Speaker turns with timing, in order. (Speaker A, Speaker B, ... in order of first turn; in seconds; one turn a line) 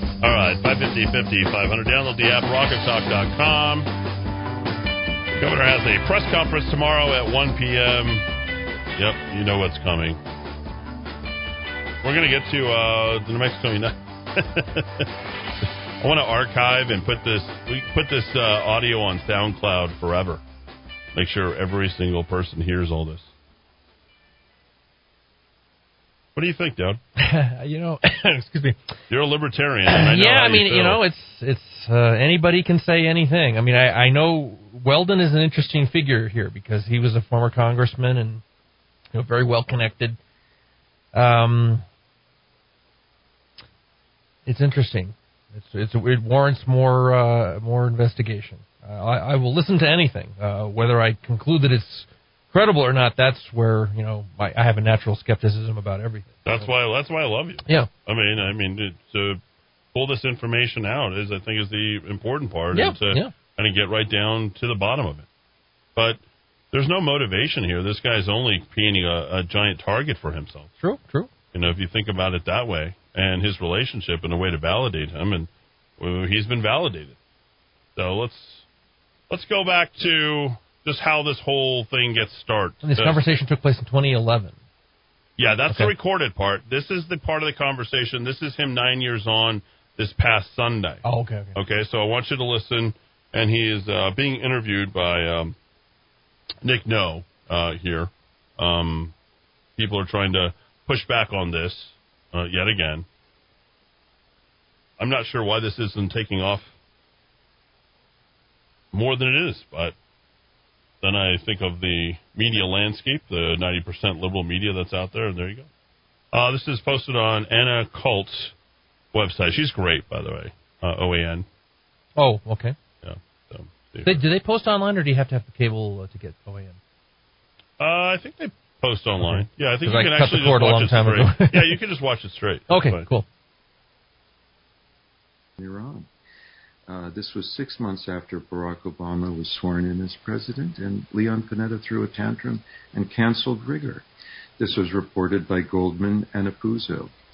Speaker A: 0.2-3.9
Speaker A: 5.3-8.3
Speaker A: 9.0-10.2
Speaker A: 12.0-20.4
Speaker A: 21.1-23.3
Speaker A: 26.4-27.0
Speaker B: 27.2-28.8
Speaker A: 29.1-31.0
Speaker B: 29.9-38.4
Speaker B: 39.1-40.2
Speaker B: 41.1-41.8
Speaker B: 44.5-56.7
Speaker A: 56.5-59.4
Speaker A: 59.9-65.3
Speaker B: 62.7-63.3
Speaker A: 66.7-70.7
Speaker B: 70.8-71.3
Speaker A: 71.5-77.2
Speaker A: 78.0-78.6
Speaker A: 79.3-83.2
Speaker B: 82.8-84.6
Speaker A: 85.4-91.0
Speaker B: 91.0-91.6
Speaker A: 91.5-95.6
Speaker A: 96.6-99.1
Speaker A: 99.8-103.1
Speaker A: 105.0-106.7
Speaker A: 108.9-110.0
Speaker A: 111.0-115.7
Speaker A: 116.3-118.5
Speaker A: 119.1-121.5
Speaker B: 122.2-122.8
Speaker A: 123.0-124.2
Speaker B: 124.0-126.8
Speaker A: 127.8-133.1
Speaker B: 129.2-131.8
Speaker B: 132.7-133.3
Speaker C: 135.6-136.1
Speaker C: 136.9-144.1
Speaker C: 144.6-147.1